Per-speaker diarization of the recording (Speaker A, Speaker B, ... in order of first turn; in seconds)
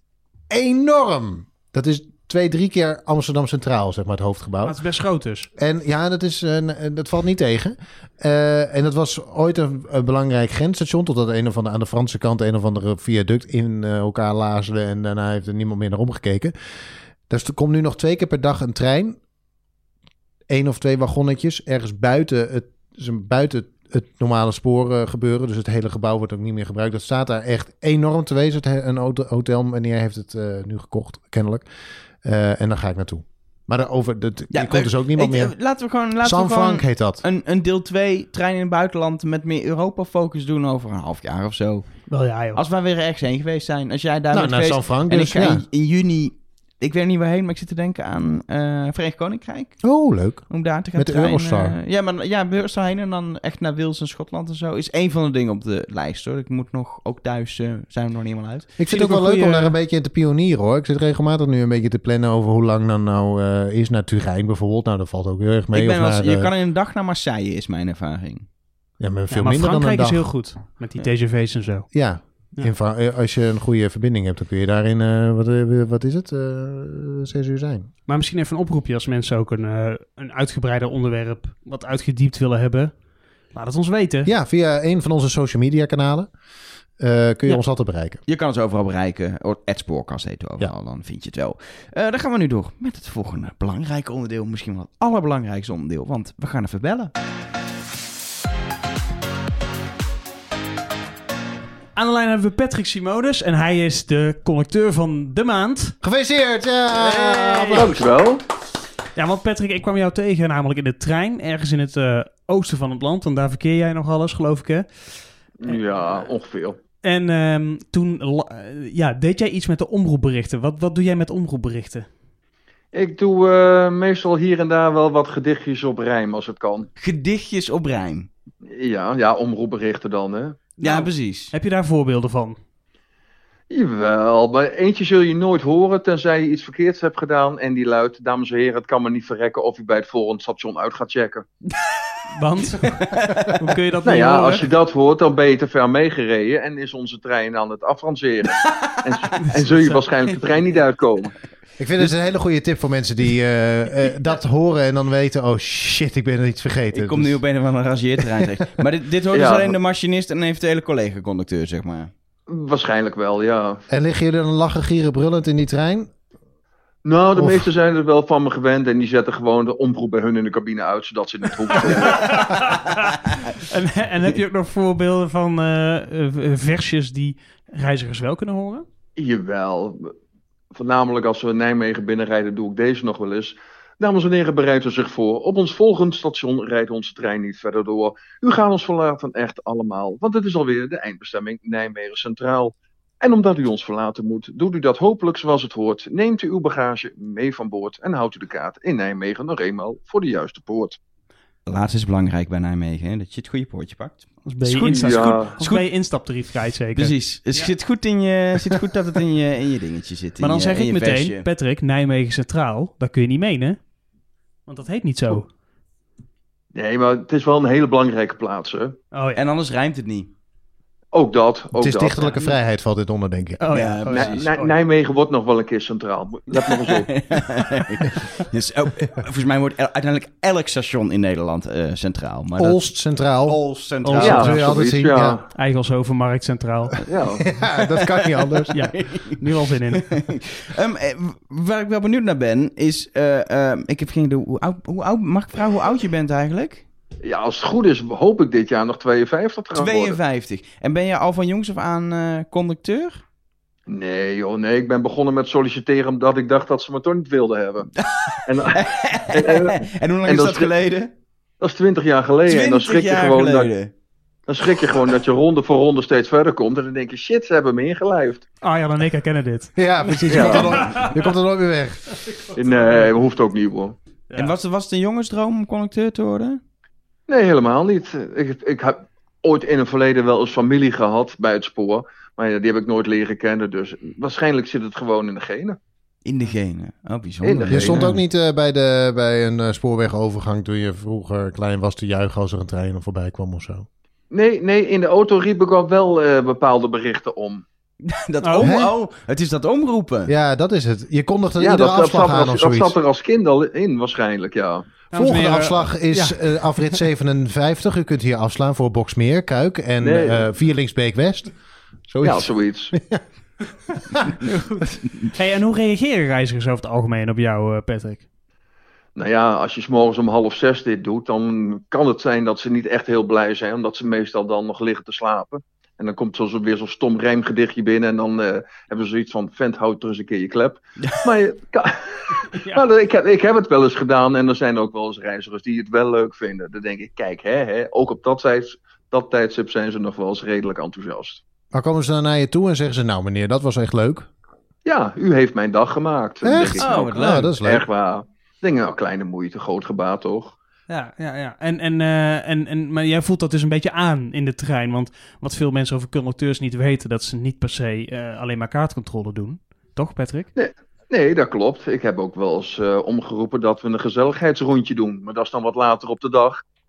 Speaker A: 0.5-4.8, 5.6-16.5, 17.3-19.2, 20.5-31.7, 32.2-35.6, 36.2-37.2, 44.3-45.6, 49.8-51.8, 58.8-66.5, 69.0-70.3, 71.9-77.9, 84.2-86.3, 87.0-88.2, 106.0-108.0, 151.8-157.4, 158.2-158.4, 163.9-166.1, 167.3-167.7, 221.8-223.6, 232.6-233.6, 234.2-235.4, 237.4-238.7, 269.8-272.0, 287.7-293.9, 298.6-298.9, 300.3-303.0, 305.1-311.5, 312.1-313.2, 314.1-314.4, 341.7-344.3, 346.4-347.9
Speaker B: 4.6-5.5, 42.1-42.6, 58.9-59.8, 69.3-71.9, 78.1-82.9, 83.5-84.3, 102.0-106.0, 106.9-107.9, 109.2-114.9, 117.0-122.1, 130.8-132.6, 142.3-144.7, 149.4-150.0, 171.9-178.8, 204.5-207.7, 210.4-213.8, 214.7-215.5, 219.1-219.4, 223.6-224.8, 234.0-234.6, 235.6-237.0, 238.7-240.3, 268.6-271.3, 272.1-273.1, 298.4-298.8, 305.1-307.0, 314.2-318.2, 332.5-332.8, 350.9-360.5
Speaker C: 34.5-41.9, 42.5-49.8, 50.5-58.7, 65.7-68.5, 88.3-97.1, 127.0-128.3, 130.8-131.5, 142.8-143.6, 148.6-149.0, 156.9-162.1, 201.7-205.8, 207.0-211.5, 219.3-220.3, 223.7-224.5, 226.7-232.8, 233.5-234.6, 237.5-246.8, 249.7-253.2, 258.0-261.1, 262.5-263.9, 274.4-276.6, 286.2-288.2, 298.0-300.3, 346.8-347.6
Speaker D: 107.7-108.4, 115.6-116.8, 122.9-126.9, 128.7-130.6, 133.7-141.5, 144.0-151.3, 159.3-159.8, 162.5-163.8, 167.1-172.6, 179.2-180.1, 180.7-201.0, 204.9-205.5, 216.7-219.0, 221.1-222.4, 224.1-227.1, 234.2-235.4, 237.1-237.5, 247.2-250.2, 253.9-257.9, 258.5-260.7, 261.6-263.7, 264.5-268.5, 270.3-270.9, 272.6-274.0, 277.3-285.8, 287.4-288.1, 294.3-297.6, 301.6-304.9, 310.0-310.4, 312.2-312.9, 319.2-341.4, 344.9-350.5, 360.6-366.6